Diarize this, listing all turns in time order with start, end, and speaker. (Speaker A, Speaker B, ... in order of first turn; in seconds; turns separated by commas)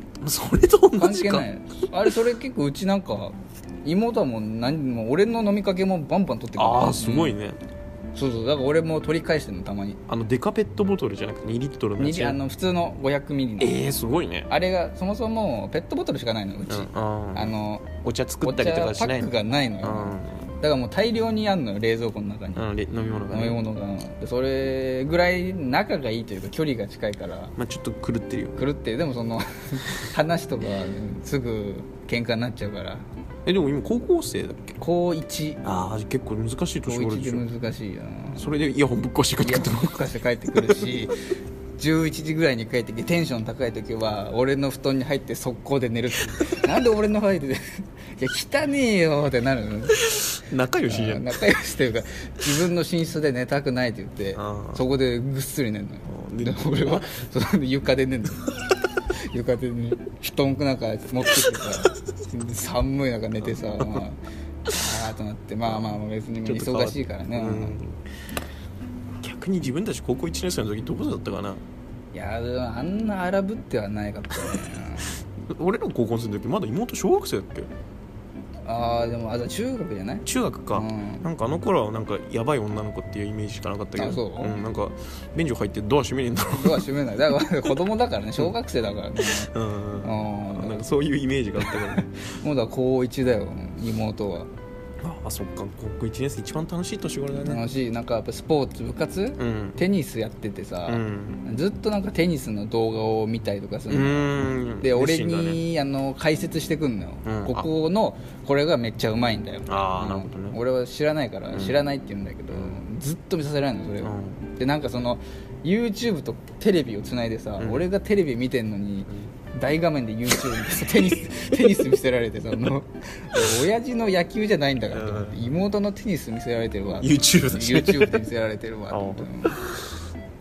Speaker A: 0.2-1.5, Speaker B: 1.0-7.3, Speaker A: 6.6-7.6, Speaker B: 8.2-10.0, Speaker A: 10.1-12.4, Speaker B: 12.0-13.8, Speaker A: 13.6-14.5, Speaker B: 14.5-17.9, Speaker A: 16.7-17.5, Speaker A: 18.0-20.5, Speaker B: 18.4-22.6, Speaker A: 22.6-23.6, Speaker B: 23.3-27.6, Speaker A: 27.6-28.6, Speaker B: 28.6-33.0, Speaker A: 33.5-34.8, Speaker B: 34.8-35.6, Speaker A: 35.6-37.5, Speaker B: 36.9-38.5, Speaker A: 38.4-40.9, Speaker B: 39.4-41.2, Speaker B: 41.8-50.0, Speaker A: 50.1-51.4, Speaker B: 50.9-58.5, Speaker A: 54.4-54.8, Speaker A: 56.1-57.1, Speaker B: 59.3-67.8, Speaker A: 63.4-64.0, Speaker A: 65.7-68.0, Speaker A: 69.2-71.6, Speaker B: 72.1-75.2, Speaker A: 75.5-77.7, Speaker B: 78.7-81.3, Speaker A: 80.2-86.9, Speaker B: 84.0-84.5, Speaker B: 86.5-89.5, Speaker A: 89.2-92.1, Speaker B: 90.0-90.8, Speaker B: 91.6-94.5, Speaker A: 95.0-97.6, Speaker B: 97.4-129.6, Speaker A: 99.4-99.8, Speaker A: 100.9-101.4, Speaker A: 103.9-105.6, Speaker A: 107.2-107.7, Speaker A: 109.7-110.6, Speaker A: 111.5-111.8, Speaker A: 112.5-112.8, Speaker A: 114.0-114.5, Speaker A: 117.6-117.9, Speaker A: 124.9-125.4, Speaker A: 127.0-128.2, Speaker A: 128.9-129.8